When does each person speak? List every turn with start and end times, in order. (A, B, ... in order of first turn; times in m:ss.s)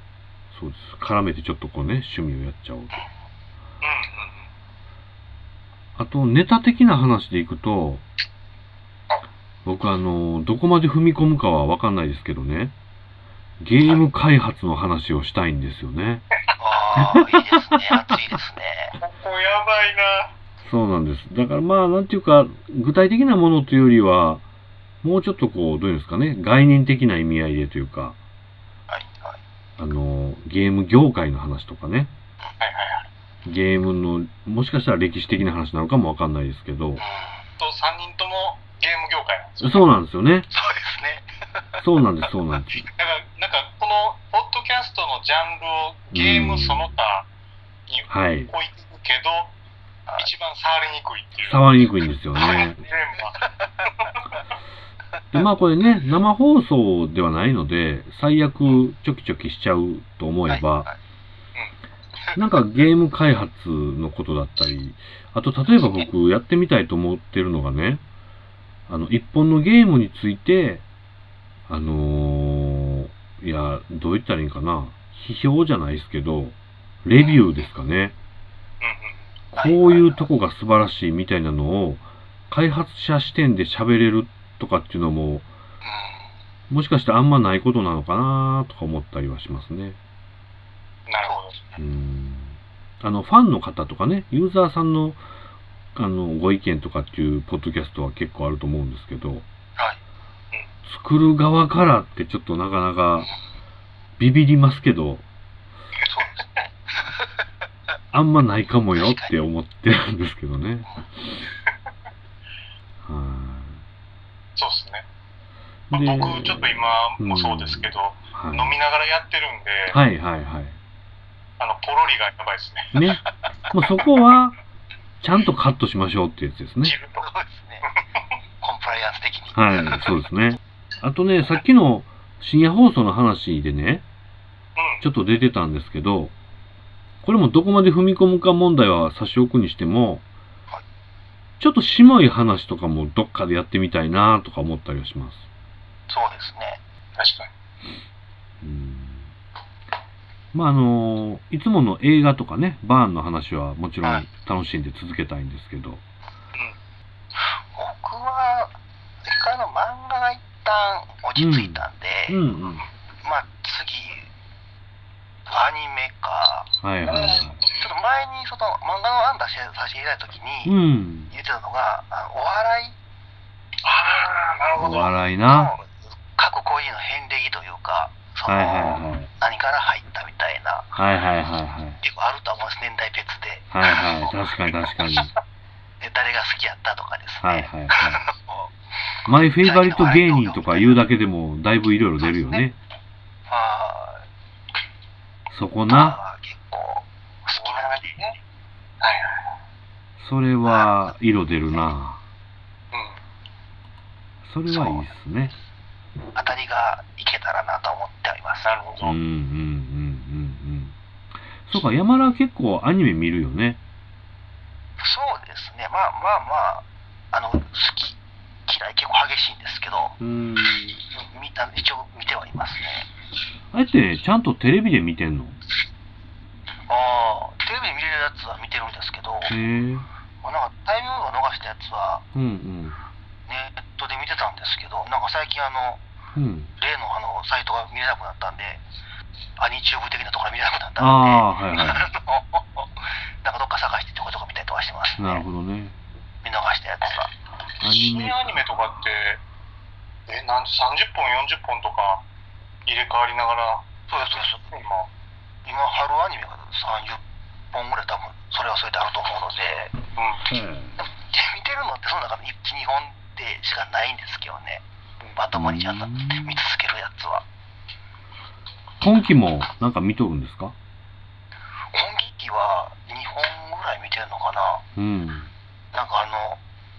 0:00.5-0:03.0 A
0:03.8-0:04.5 B
0:06.0-0:08.0 A
0:09.6-0:12.7 A
0:13.6-0:16.2 A
0:16.6-0:19.0 C
0:17.0-0:18.2 A
0:19.0-0:20.3 B
0:20.6-0:24.4 A
0:25.0-0:28.2 A
0:28.9-0:29.4 C
0:29.8-0:32.1 A
0:32.6-0:33.1 B
0:33.4-0:37.0 A
0:37.0-0:37.4 C
0:37.6-0:39.9 B
0:39.6-0:40.5 A
0:40.5-0:41.3 C
0:41.8-0:42.9 A
0:42.9-0:47.3 B
0:46.1-0:47.0 A
0:47.9-0:49.5 B
0:48.1-0:48.5 A
0:50.2-0:51.6 B
0:51.4-0:52.8 A
0:52.4-0:53.4 B
0:55.3-1:00.9 A
1:00.5-1:01.0 C
1:02.4-1:08.0 A
1:08.9-1:10.8 A
1:11.7-1:18.2 A
1:18.8-1:19.2 B
1:19.5-1:25.5 A
1:19.6-1:20.2 C
1:25.8-1:26.3 C
1:26.7-1:30.0 A
1:31.1-1:31.6 B
1:31.2-1:31.8 C
1:31.8-1:35.2 A
1:36.0-1:39.4 A
1:40.9-1:43.3 A
1:44.2-1:45.2 A
1:46.1-1:47.3 C
1:48.1-1:51.5 A
1:48.9-1:49.4 C
1:53.0-1:53.8 A
1:54.6-1:55.0 B
1:55.9-1:58.8 A
1:55.9-2:00.0 B
1:59.9-2:00.8 A
2:01.6-2:02.9 B
2:02.9-2:04.6 A
2:05.2-2:07.0 A
2:06.8-2:07.3 B
2:07.2-2:07.9 C
2:08.6-2:09.9 C
2:09.5-2:14.0 A
2:14.8-2:15.0 B
2:15.0-2:16.3 A
2:17.2-2:20.2 A
2:21.6-2:25.4 A
2:26.1-2:26.8 C
2:27.2-2:27.5 B
2:28.6-2:29.3 A
2:30.5-2:36.0 A
2:37.4-2:42.4 C
2:41.4-2:42.9 A
2:43.2-2:44.3 C
2:45.5-2:46.7 C
2:46.8-2:47.6 A
2:47.1-2:48.0 B
2:47.6-2:50.8 C
2:50.6-2:51.3 A
2:51.3-2:53.0 C
2:53.8-2:55.1 B
2:54.8-2:55.7 A
2:55.3-3:01.0 C
2:58.5-2:59.3 A
3:01.0-3:02.0 A
3:02.0-3:03.7 C
3:03.7-3:05.3 A
3:06.0-3:08.7 C
3:07.4-3:08.2 A
3:09.3-3:12.8 A
3:09.6-3:11.0 C
3:13.5-3:14.2 C
3:15.5-3:16.2 A
3:15.9-3:18.2 C
3:17.6-3:18.4 B
3:19.0-3:19.4 B
3:20.2-3:22.2 A
3:20.6-3:21.1 C
3:22.9-3:23.2 B
3:24.4-3:25.6 A
3:24.7-3:25.1 C
3:26.4-3:28.8 C
3:28.6-3:29.2 B
3:29.0-3:31.0 A
3:31.6-3:33.8 A
3:35.0-3:40.2 C
3:40.2-3:41.0 A
3:41.2-3:43.1 C
3:43.7-3:45.6 A
3:46.9-3:49.6 C
3:49.5-3:50.1 A
3:50.4-3:52.2 C
3:52.3-3:53.0 A
3:53.5-3:56.0 C
3:56.4-3:56.7 A
3:56.8-3:58.8 C
3:59.6-4:02.9 C
4:01.0-4:02.1 A
4:03.4-4:05.5 C
4:05.2-4:06.0 A
4:06.4-4:07.3 C
4:07.8-4:09.0 A
4:07.8-4:09.4 B
4:10.3-4:12.2 B
4:12.9-4:15.1 B
4:14.1-4:14.7 C
4:15.6-4:17.2 C
4:17.7-4:19.9 C
4:20.2-4:20.4 B
4:20.5-4:21.0 A
4:21.0-4:24.8 C
4:25.4-4:27.4 C
4:25.5-4:26.6 A
4:29.0-4:30.8 A
4:31.9-4:34.8 C
4:35.0-4:35.5 A
4:35.9-4:36.6 C